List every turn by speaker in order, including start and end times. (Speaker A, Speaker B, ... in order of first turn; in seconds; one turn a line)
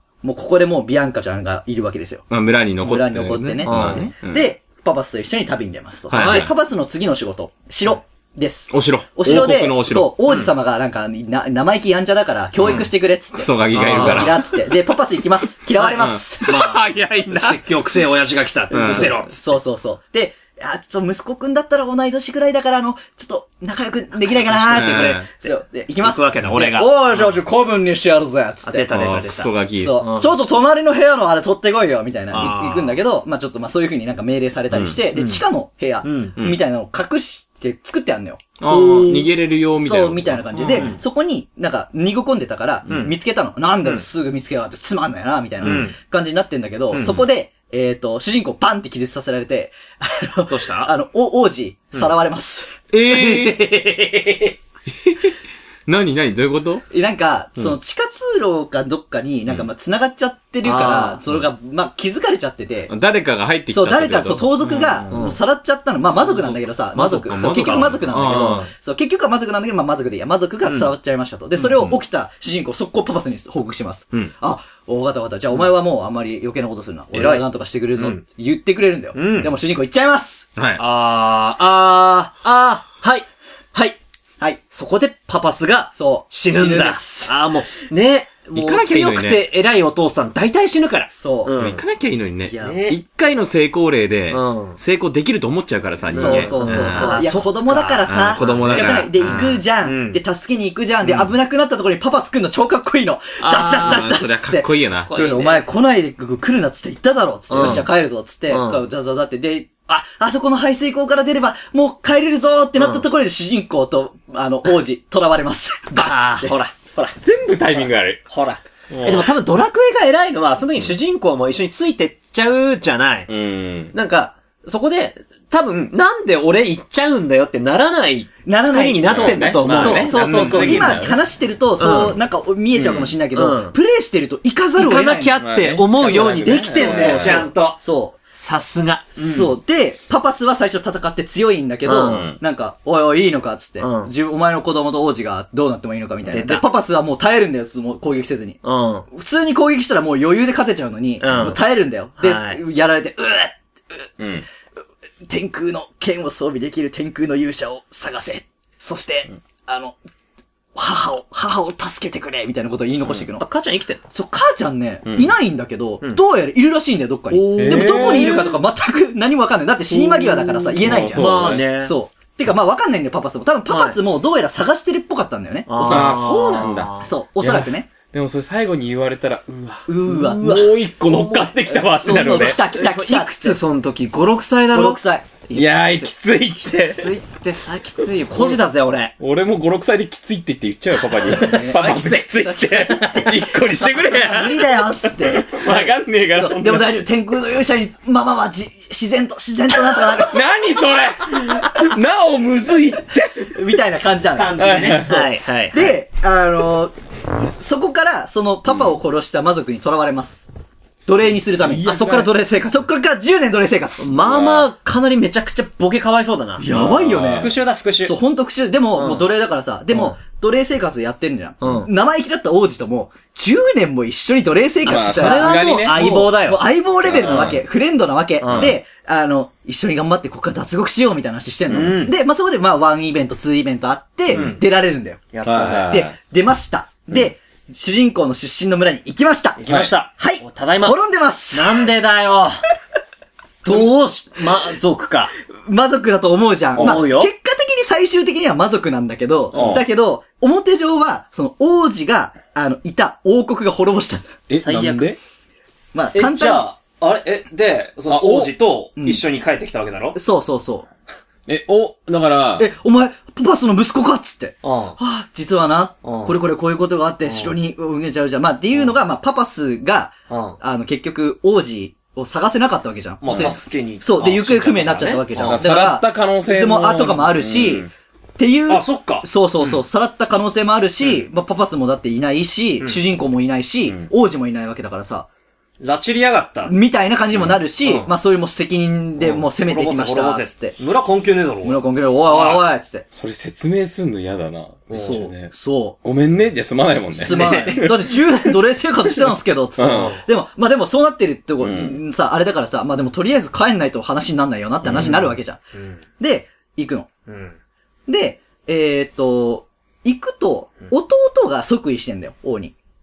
Speaker A: 0.2-2.3
Speaker B: 2.3-4.5
Speaker A: 2.8-16.8
Speaker C: 3.6-4.1
Speaker B: 6.1-6.5
Speaker C: 6.1-6.5
Speaker B: 8.7-10.1
Speaker B: 12.6-14.6
Speaker C: 13.7-14.4
Speaker B: 15.8-17.6
Speaker C: 16.5-19.4
Speaker B: 18.7-19.1
Speaker A: 18.7-28.9
Speaker C: 24.3-27.4
Speaker B: 24.7-25.3
Speaker C: 28.6-30.3
Speaker B: 28.9-30.0
Speaker A: 29.8-52.8
Speaker C: 32.3-33.0
Speaker B: 34.7-35.0
Speaker C: 35.1-35.4
Speaker C: 36.0-36.4
Speaker B: 38.6-40.9
Speaker C: 40.6-41.0
Speaker C: 42.9-43.1
Speaker C: 45.6-46.0
Speaker C: 46.9-47.2
Speaker C: 50.5-50.9
Speaker B: 52.9-53.7
Speaker C: 53.1-54.5
Speaker B: 55.0-55.4
Speaker B: 55.9-56.8
Speaker A: 56.9-62.9
Speaker C: 60.6-61.2
Speaker B: 62.9-65.1
Speaker A: 63.7-80.5
Speaker C: 64.6-65.4
Speaker C: 66.2-68.7
Speaker B: 67.3-68.7
Speaker C: 70.7-70.9
Speaker C: 71.6-72.0
Speaker C: 77.1-77.5
Speaker C: 79.2-79.5
Speaker B: 80.6-80.8
Speaker C: 80.8-84.0
Speaker C: 84.7-91.8
Speaker A: 86.0-87.3
Speaker B: 88.5-89.5
Speaker A: 91.1-91.5
Speaker B: 91.5-97.2
Speaker C: 92.5-93.0
Speaker C: 94.3-94.8
Speaker C: 96.1-100.2
Speaker A: 96.1-116.6
Speaker B: 98.1-99.6
Speaker C: 101.0-101.3
Speaker C: 103.4-104.1
Speaker B: 103.7-105.1
Speaker C: 105.1-105.6
Speaker C: 107.5-107.9
Speaker C: 108.5-108.8
Speaker C: 112.8-113.0
Speaker C: 116.0-117.1
Speaker B: 117.2-118.2
Speaker C: 117.8-123.3
Speaker B: 118.9-119.3
Speaker B: 123.3-123.9
Speaker C: 123.9-131.1
Speaker A: 128.5-135.4
Speaker B: 129.0-131.2
Speaker C: 131.8-132.2
Speaker B: 132.8-133.1
Speaker C: 132.8-133.8
Speaker C: 134.8-137.8
Speaker B: 135.4-137.5
Speaker A: 136.0-138.2
Speaker C: 138.3-139.6
Speaker A: 139.2-148.6
Speaker C: 141.9-142.2
Speaker B: 141.9-142.4
Speaker C: 143.8-144.1
Speaker C: 146.3-146.6
Speaker C: 148.6-149.1
Speaker A: 149.1-154.1
Speaker C: 151.2-151.6
Speaker C: 152.2-152.6
Speaker B: 154.2-154.4
Speaker A: 155.3-160.0
Speaker A: 160.8-163.4
Speaker C: 163.4-164.0
Speaker A: 164.1-176.2
Speaker B: 165.1-165.3
Speaker C: 167.3-168.5
Speaker B: 167.6-168.5
Speaker C: 169.9-171.9
Speaker B: 170.8-171.6
Speaker C: 173.7-174.0
Speaker C: 175.7-177.1
Speaker B: 175.8-182.6
Speaker A: 177.0-177.9
Speaker A: 179.9-180.7
Speaker C: 180.1-180.4
Speaker C: 181.0-185.0
Speaker A: 181.7-183.6
Speaker A: 184.7-185.6
Speaker C: 185.5-185.8
Speaker B: 185.5-187.1
Speaker C: 186.8-189.1
Speaker B: 189.2-196.9
Speaker C: 191.2-193.0
Speaker A: 191.3-191.9
Speaker A: 192.4-195.6
Speaker C: 195.6-195.9
Speaker A: 196.3-200.4
Speaker B: 200.2-203.6
Speaker A: 203.4-206.9
Speaker C: 204.3-205.9
Speaker B: 204.6-205.2
Speaker A: 207.6-210.5
Speaker A: 211.1-214.1
Speaker B: 211.6-212.1
Speaker C: 211.8-212.3
Speaker C: 214.0-216.7
Speaker B: 214.2-214.7
Speaker A: 216.6-239.6
Speaker B: 216.7-217.6
Speaker C: 217.2-218.2
Speaker C: 218.9-219.3
Speaker C: 219.9-220.2
Speaker C: 221.6-221.9
Speaker C: 224.8-226.6
Speaker B: 224.9-226.1
Speaker B: 227.1-227.6
Speaker C: 227.2-227.5
Speaker C: 228.4-228.8
Speaker B: 228.5-228.8
Speaker C: 231.7-232.1
Speaker C: 234.3-234.6
Speaker C: 235.3-235.9
Speaker B: 235.4-236.1
Speaker C: 239.6-241.0
Speaker B: 239.7-239.9
Speaker A: 240.2-241.9
Speaker C: 241.5-242.6
Speaker C: 243.6-245.3
Speaker A: 243.7-243.9
Speaker A: 245.7-254.3
Speaker B: 246.8-247.1
Speaker C: 246.8-247.3
Speaker C: 249.5-249.8
Speaker B: 249.5-249.8
Speaker B: 254.5-255.2
Speaker C: 254.6-255.2
Speaker A: 255.9-256.7
Speaker C: 256.1-260.2
Speaker B: 258.1-258.5
Speaker A: 259.0-259.2
Speaker A: 260.1-260.9
Speaker B: 261.5-262.7
Speaker A: 262.6-285.3
Speaker C: 264.6-265.0
Speaker C: 266.0-266.4
Speaker C: 267.3-267.5
Speaker C: 270.3-270.6
Speaker C: 273.2-275.6
Speaker B: 273.3-273.6
Speaker B: 275.4-277.9
Speaker C: 278.7-279.8
Speaker C: 285.8-286.8
Speaker A: 286.7-290.8
Speaker C: 287.8-288.1
Speaker C: 289.2-292.6
Speaker A: 291.6-293.1
Speaker B: 293.1-295.5
Speaker C: 294.9-295.2
Speaker A: 294.9-296.0
Speaker B: 296.0-298.1
Speaker A: 297.1-305.6
Speaker C: 297.2-297.9
Speaker B: 299.8-300.1
Speaker C: 299.9-300.2
Speaker B: 301.6-302.0
Speaker B: 304.8-305.2
Speaker C: 304.9-306.0
Speaker A: 306.2-307.1
Speaker C: 307.3-307.6
Speaker A: 308.1-312.8